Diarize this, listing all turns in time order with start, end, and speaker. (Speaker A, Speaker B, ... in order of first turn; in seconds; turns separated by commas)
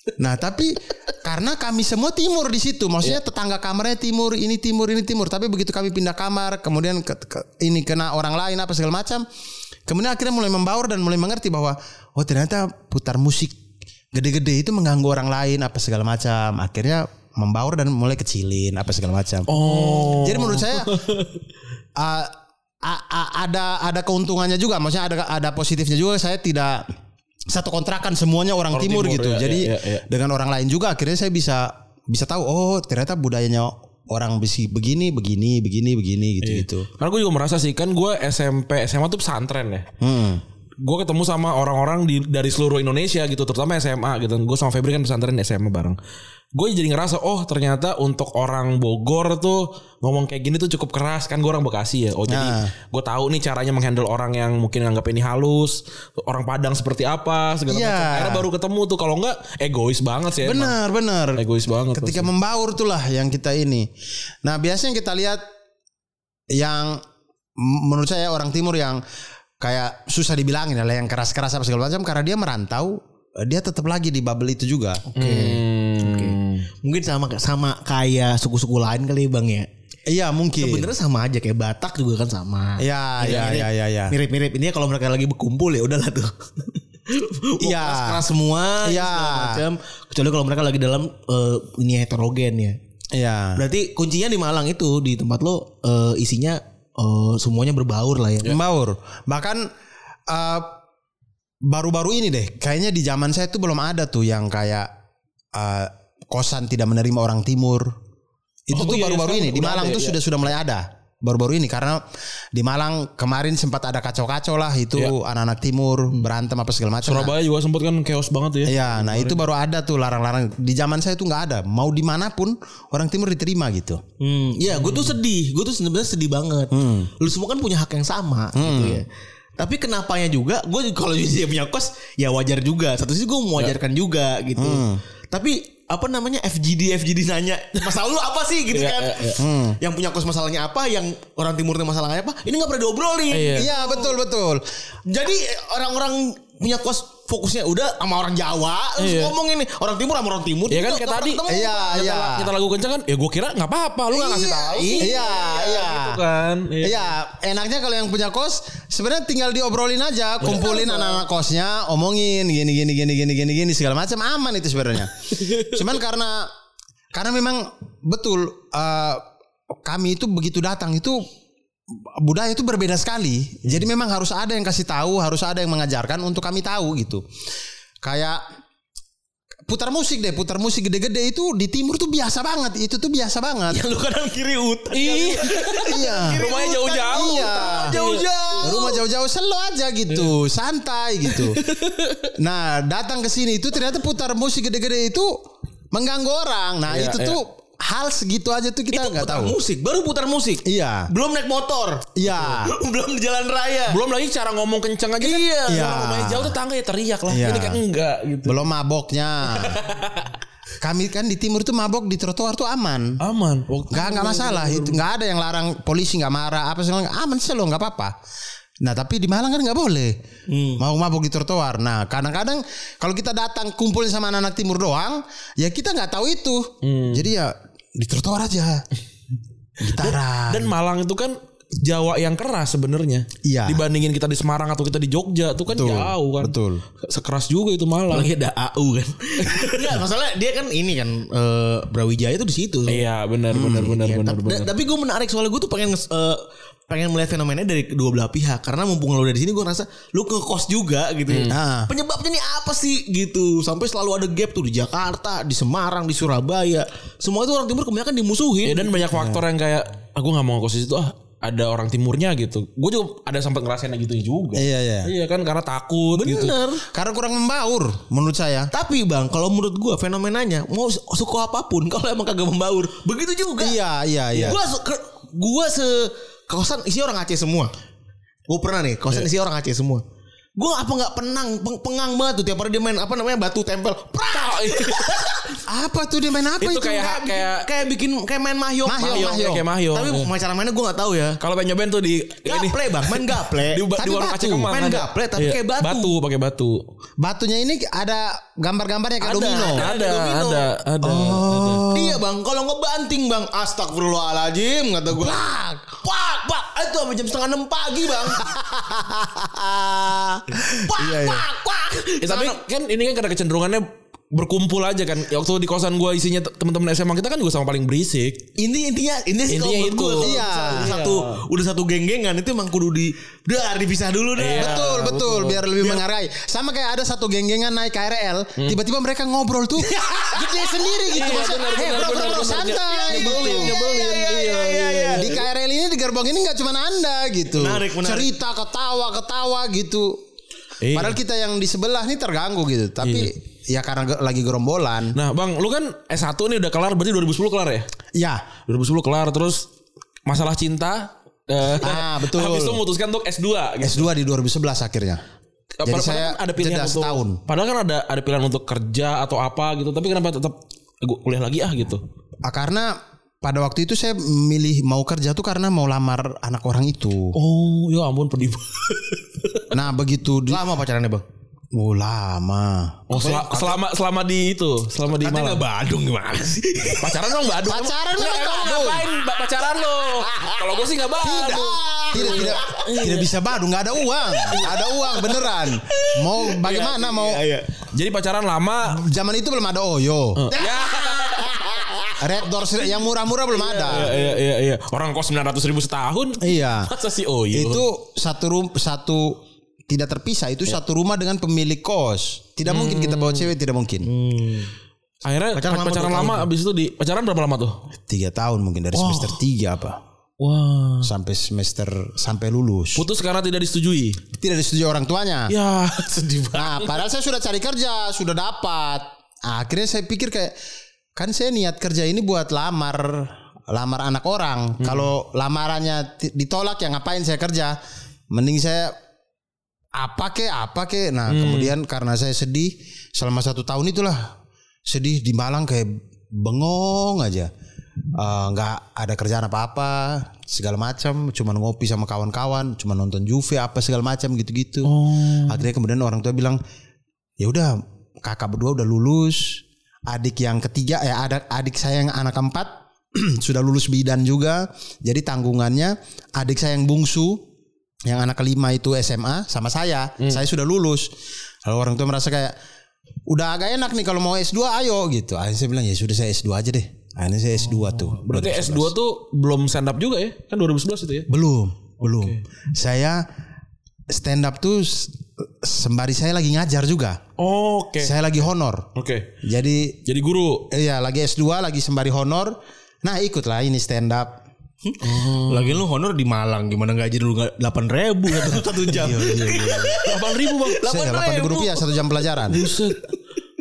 Speaker A: 0.2-9.2, Speaker A: 9.9-13.6, Speaker A: 14.1-21.0, Speaker B: 19.5-21.3, Speaker A: 22.0-26.9, Speaker A: 27.5-36.9, Speaker B: 28.7-30.0, Speaker B: 36.4-39.9, Speaker A: 40.0-40.4, Speaker B: 40.8-46.0, Speaker B: 46.5-60.8, Speaker A: 52.3-52.7, Speaker A: 57.7-58.5, Speaker A: 60.4-63.9, Speaker B: 61.4-62.3, Speaker A: 64.4-65.4, Speaker A: 66.5-67.0, Speaker A: 67.6-69.0, Speaker A: 69.6-75.0, Speaker C: 75.1-79.7, Speaker B: 75.2-76.7, Speaker A: 80.1-80.9, Speaker C: 80.6-92.8, Speaker A: 82.8-84.1, Speaker A: 87.6-88.2, Speaker A: 88.8-89.7, Speaker A: 93.1-93.6, Speaker C: 93.6-98.6, Speaker A: 98.4-99.7, Speaker A: 100.3-100.7, Speaker A: 101.7-104.9, Speaker A: 105.5-108.0, Speaker A: 108.7-117.3, Speaker B: 108.7-110.2, Speaker B: 117.0-119.4, Speaker A: 118.7-124.0, Speaker C: 124.2-129.1, Speaker B: 124.8-125.2, Speaker A: 126.7-127.1, Speaker A: 128.6-129.0, Speaker C: 129.6-144.1, Speaker A: 134.6-135.0, Speaker B: 138.7-139.4, Speaker A: 139.4-139.8, Speaker B: 143.3-143.7, Speaker A: 143.6-144.6, Speaker C: 145.1-151.9, Speaker B: 149.0-149.3, Speaker B: 150.7-157.1, Speaker A: 151.5-152.5, Speaker C: 154.1-155.5, Speaker A: 155.0-156.2, Speaker A: 156.8-166.5, Speaker B: 160.4-160.9, Speaker B: 165.3-165.8, Speaker A: 167.1-169.2, Speaker A: 169.8-171.2, Speaker A: 172.2-177.2, Speaker A: 178.0-178.4, Speaker A: 179.7-183.8, Speaker C: 183.7-189.0, Speaker B: 184.9-188.3, Speaker A: 185.9-186.5, Speaker A: 187.1-188.0, Speaker A: 188.6-191.6, Speaker B: 191.6-192.3, Speaker A: 192.4-195.4, Speaker A: 195.9-199.6, Speaker B: 196.9-197.4, Speaker C: 198.9-204.0, Speaker A: 200.7-201.1, Speaker A: 202.2-202.7, Speaker B: 203.9-208.6, Speaker C: 205.2-206.0, Speaker A: 205.7-206.6, Speaker A: 207.3-207.8, Speaker A: 208.4-209.8, Speaker B: 209.5-210.3, Speaker A: 210.8-213.2, Speaker B: 213.2-215.0, Speaker A: 213.9-218.2, Speaker A: 218.8-220.2, Speaker C: 220.5-220.8, Speaker A: 220.8-228.8, Speaker B: 226.8-227.3, Speaker A: 229.8-230.7, Speaker B: 229.8-238.3, Speaker A: 233.4-233.8, Speaker A: 235.7-236.8, Speaker C: 238.1-258.9, Speaker B: 239.4-240.0, Speaker B: 242.9-244.7, Speaker A: 243.5-243.9, Speaker B: 251.3-251.6, Speaker A: 251.5-251.9, Speaker B: 258.6-266.6, Speaker A: 259.1-259.4, Speaker A: 264.5-265.1, Speaker C: 266.1-266.9, Speaker A: 266.9-268.7, Speaker C: 268.7-273.8, Speaker A: 273.6-274.6, Speaker C: 274.3-277.7, Speaker C: 278.5-280.0, Speaker C: 280.6-285.5, Speaker B: 284.3-285.3, Speaker A: 285.7-287.1, Speaker B: 286.6-287.7, Speaker C: 286.9-291.4, Speaker A: 288.9-289.7, Speaker B: 289.0-290.3, Speaker B: 291.4-296.8, Speaker C: 292.4-293.9, Speaker A: 294.0-294.7, Speaker C: 294.7-296.1, Speaker A: 297.2-299.8, Speaker C: 299.2-300.7, Speaker B: 299.3-301.9, Speaker A: 301.0-302.2, Speaker C: 301.9-305.4, Speaker A: 305.1-306.0, Speaker C: 306.0-308.5, Speaker A: 308.3-311.5, Speaker C: 310.7-312.6, Speaker B: 312.2-318.4, Speaker C: 318.6-324.9, Speaker B: 319.5-321.4, Speaker A: 320.2-320.9, Speaker B: 324.4-325.7, Speaker A: 324.6-333.8, Speaker C: 330.1-331.5, Speaker B: 331.1-335.4, Speaker C: 332.8-335.4, Speaker A: 335.1-340.2, Speaker C: 337.5-338.3, Speaker B: 340.8-341.2, Speaker A: 340.9-345.2, Speaker B: 343.0-343.3, Speaker B: 345.1-347.9, Speaker A: 348.1-348.5, Speaker B: 348.7-349.6, Speaker B: 350.3-354.1, Speaker A: 351.8-352.8, Speaker A: 353.8-355.2, Speaker B: 355.8-362.0, Speaker A: 355.8-357.4, Speaker A: 362.4-367.4, Speaker B: 367.3-369.7, Speaker A: 369.7-370.6, Speaker C: 370.5-371.2, Speaker A: 371.7-373.1, Speaker B: 373.1-375.6, Speaker C: 373.1-373.7, Speaker C: 375.2-377.5, Speaker B: 377.0-383.3, Speaker A: 377.6-379.1, Speaker C: 379.9-380.6, Speaker A: 381.2-387.4, Speaker C: 381.2-383.2, Speaker C: 384.4-387.7, Speaker B: 387.9-389.0, Speaker A: 388.9-390.5, Speaker B: 390.4-391.6, Speaker C: 390.5-392.1, Speaker A: 392.2-394.2, Speaker C: 393.5-394.4, Speaker B: 393.9-397.9, Speaker A: 396.4-396.9, Speaker A: 397.5-404.1, Speaker B: 402.7-403.5, Speaker C: 404.0-404.7, Speaker B: 405.2-407.8, Speaker C: 405.5-406.5, Speaker A: 408.1-410.0, Speaker B: 409.0-409.4, Speaker B: 410.4-411.1, Speaker A: 411.0-413.1, Speaker B: 413.0-414.2, Speaker A: 414.4-415.5, Speaker B: 415.5-416.9, Speaker A: 416.5-420.6, Speaker A: 421.2-427.8, Speaker B: 424.8-425.1, Speaker A: 428.3-428.9, Speaker A: 429.9-434.3, Speaker B: 431.3-431.7, Speaker A: 434.9-437.5, Speaker A: 438.1-446.6, Speaker B: 444.8-445.7, Speaker A: 447.4-457.4, Speaker A: 458.1-461.1, Speaker A: 461.7-462.6, Speaker A: 463.3-468.9, Speaker B: 467.7-471.3, Speaker A: 471.3-473.2, Speaker B: 472.1-472.4, Speaker A: 474.1-477.2, Speaker B: 477.4-478.2, Speaker A: 478.0-478.9, Speaker B: 478.9-479.3, Speaker A: 479.4-480.0, Speaker B: 480.1-480.7, Speaker A: 480.7-484.4, Speaker C: 484.8-492.0, Speaker B: 485.0-485.8, Speaker A: 488.9-490.0, Speaker B: 490.0-490.8, Speaker A: 490.9-492.7, Speaker B: 492.5-493.1